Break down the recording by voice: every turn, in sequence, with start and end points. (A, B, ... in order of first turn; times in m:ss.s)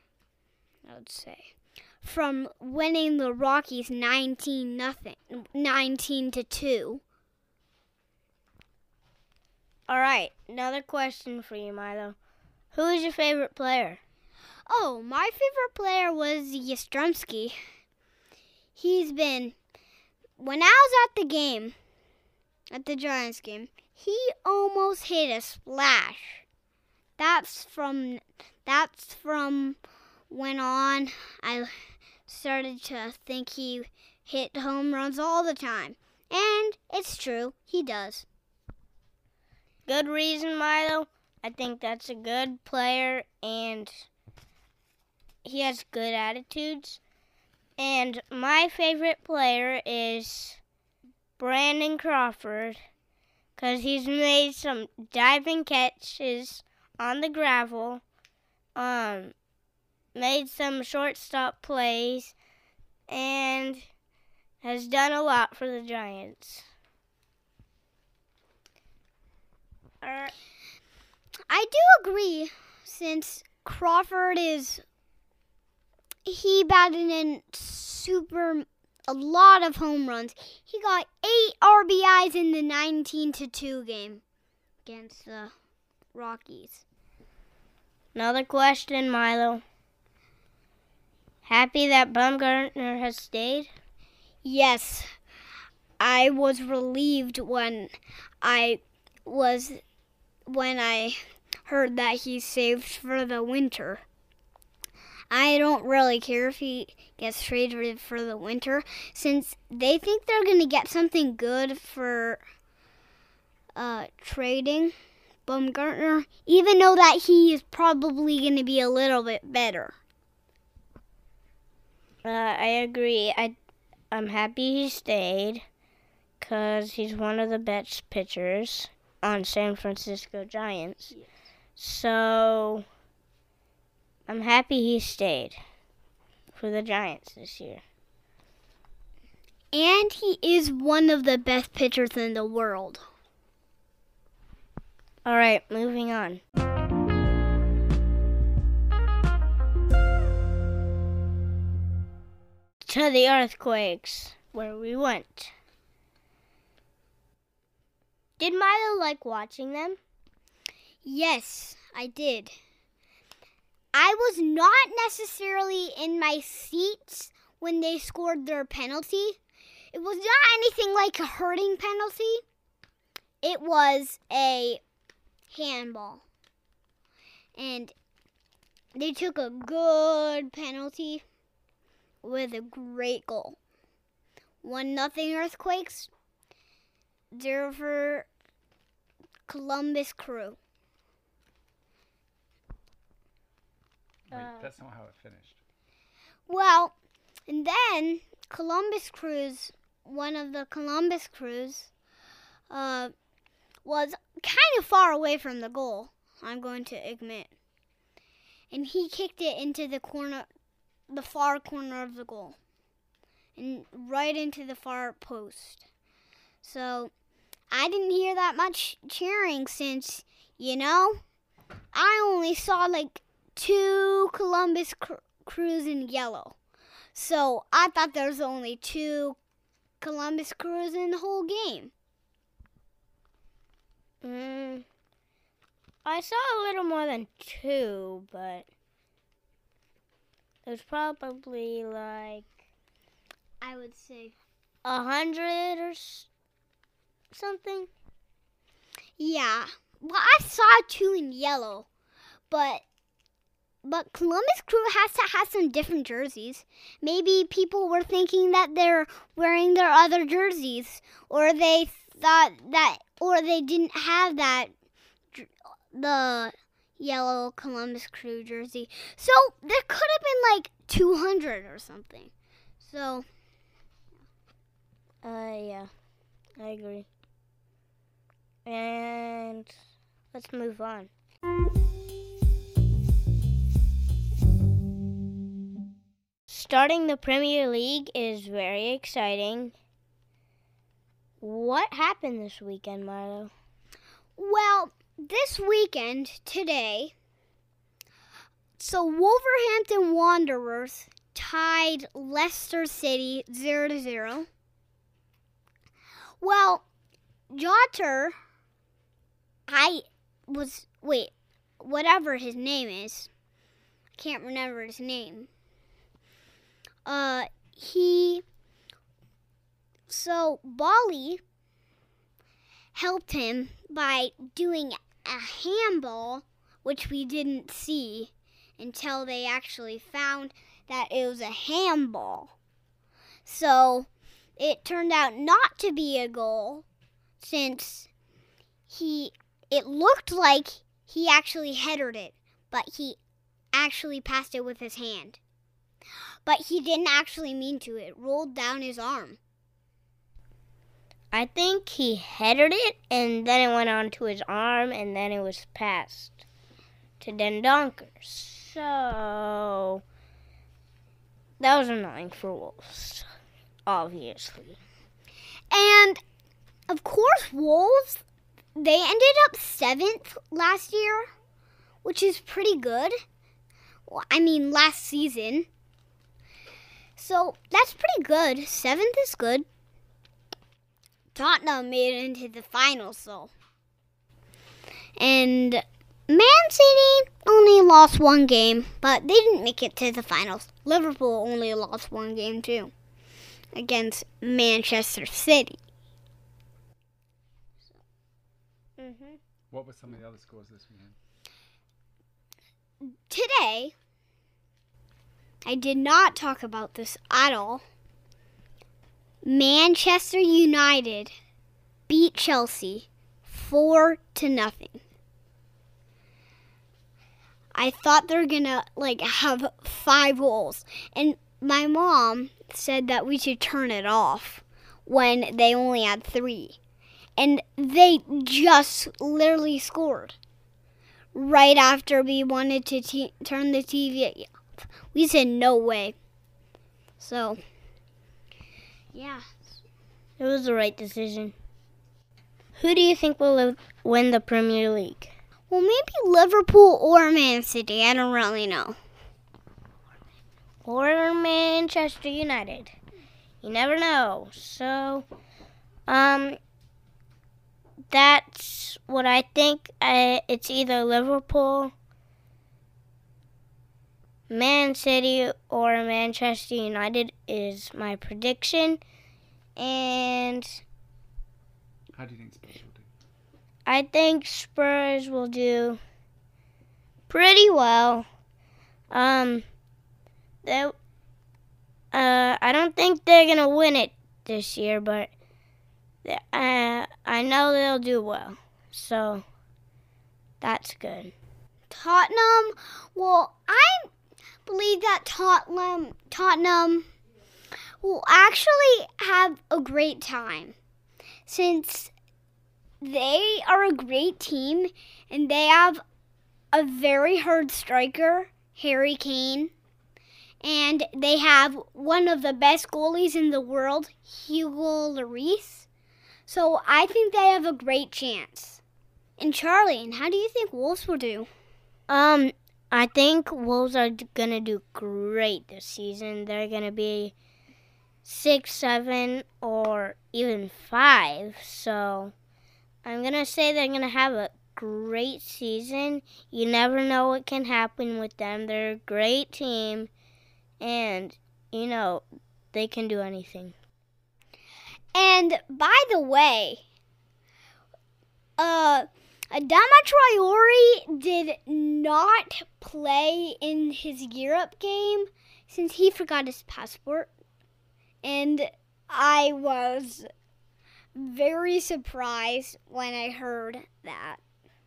0:00.8-0:07.0 A
0:09.9-0:12.2 B
0:12.7-0:14.0 B
0:14.7-0:17.6 A
0:18.8-0:19.6 A
0:20.4-0:21.8 A
0:22.7-0:26.4 A
0:27.2-0:29.8 A
0:30.3-0:31.7 A
0:32.3-0:38.2 A
0:39.9-0:44.1 B
0:45.4-0:47.0 B
0:47.8-0:50.6 B
0:51.4-0:52.8 B
0:53.6-0:58.0 B
0:58.8-0:59.3 B
1:00.2-1:02.4 B
1:03.1-1:03.8 B
1:04.6-1:06.7 B
1:10.0-1:10.3 B
1:11.5-1:14.8 A
1:16.2-1:24.2 A
1:24.8-1:25.5 A
1:26.1-1:26.8 A
1:28.2-1:29.6 B
1:31.4-1:33.7 B
1:34.4-1:35.1 A
1:36.0-1:39.8 A
1:40.5-1:44.0 A
1:45.3-1:52.4 A
1:53.8-1:54.9 A
1:55.5-2:00.0 A
2:02.2-2:03.5 B
2:04.1-2:05.6 B
2:06.4-2:11.1 B
2:11.8-2:12.8 B
2:14.3-2:15.6 B
2:16.5-2:17.8 B
2:19.7-2:23.0 A
2:25.2-2:26.4 B
2:32.8-2:35.5 B
2:38.4-2:40.0 B
2:41.0-2:42.5 A
2:43.9-2:49.4 A
2:49.9-2:52.4 A
2:53.4-2:54.8 A
2:55.5-2:56.2 A
2:57.6-2:57.9 A
2:59.0-3:01.2 A
3:02.2-3:03.6 A
3:04.6-3:06.1 A
3:07.3-3:08.3 A
3:09.5-3:10.6 A
3:14.3-3:15.6 C
3:14.3-3:14.7 B
3:16.5-3:16.9 A
3:17.5-3:21.9 A
3:22.7-3:23.1 A
3:23.8-3:27.5 A
3:28.7-3:30.5 A
3:31.1-3:32.6 A
3:33.6-3:35.8 A
3:36.6-3:37.1 A
3:37.7-3:41.2 A
3:41.9-3:46.6 A
3:47.1-3:49.4 A
3:50.0-3:51.9 A
3:54.2-3:54.9 B
3:56.0-3:58.7 B
4:00.7-4:02.5 B
4:03.6-4:04.4 A
4:04.8-4:06.3 B
4:07.3-4:07.9 B
4:09.2-4:11.9 A
4:12.5-4:12.8 A
4:13.8-4:24.7 A
4:25.3-4:32.3 A
4:32.8-4:33.3 A
4:35.2-4:35.9 B
4:36.6-4:37.1 B
4:38.7-4:39.7 B
4:40.3-4:41.1 B
4:46.5-4:49.8 B
4:51.4-4:53.5 B
4:54.4-4:57.1 A
4:58.8-5:04.5 A
5:06.4-5:06.8 A
5:07.5-5:08.4 A
5:09.7-5:13.3 A
5:14.2-5:15.5 A
5:17.1-5:18.4 A
5:20.1-5:21.4 A
5:22.9-5:32.5 A
5:33.5-5:36.8 A
5:37.4-5:38.1 A
5:38.9-5:43.2 A
5:43.7-5:45.4 A
5:46.5-5:49.4 A
5:51.3-5:56.4 B
5:57.2-6:00.0 B
6:01.6-6:03.3 B
6:03.9-6:04.8 B
6:05.7-6:06.2 A
6:06.9-6:08.2 A
6:08.8-6:11.3 A
6:12.0-6:13.2 A
6:14.1-6:15.7 A
6:17.2-6:19.7 A
6:21.4-6:23.5 A
6:25.2-6:32.9 A
6:33.8-6:35.8 A
6:39.0-6:39.4 B
6:39.7-6:41.2 C
6:43.0-6:43.9 A
6:45.7-6:47.8 A
6:49.4-6:51.3 A
6:52.1-6:55.0 A
6:57.8-7:06.8 A
7:07.4-7:10.4 A
7:11.3-7:16.2 A
7:17.2-7:17.6 A
7:19.1-7:19.5 A
7:20.4-7:21.5 B
7:22.8-7:25.3 B
7:25.7-7:29.0 A
7:30.8-7:33.0 B
7:33.6-7:35.3 B
7:36.1-7:36.6 B
7:38.1-7:41.9 B
7:44.5-7:49.0 B
7:49.8-7:50.8 B
7:52.2-7:53.1 C
7:53.9-7:56.0 B
7:57.3-7:58.2 B
7:59.1-7:59.7 B
8:00.6-8:00.9 B
8:02.1-8:05.3 B
8:06.2-8:09.4 B
8:10.6-8:11.3 B
8:11.9-8:14.1 A
8:14.7-8:17.0 A
8:18.0-8:20.8 A
8:21.5-8:22.1 A
8:23.0-8:26.0 A
8:26.7-8:29.7 A
8:30.6-8:35.9 A
8:36.5-8:38.8 A
8:39.4-8:41.5 A
8:42.1-8:47.3 B
8:48.2-8:52.3 B
8:53.0-9:00.1 B
9:00.8-9:03.7 B
9:05.2-9:06.8 A
9:08.6-9:17.3 A
9:18.2-9:20.3 A
9:21.2-9:24.4 A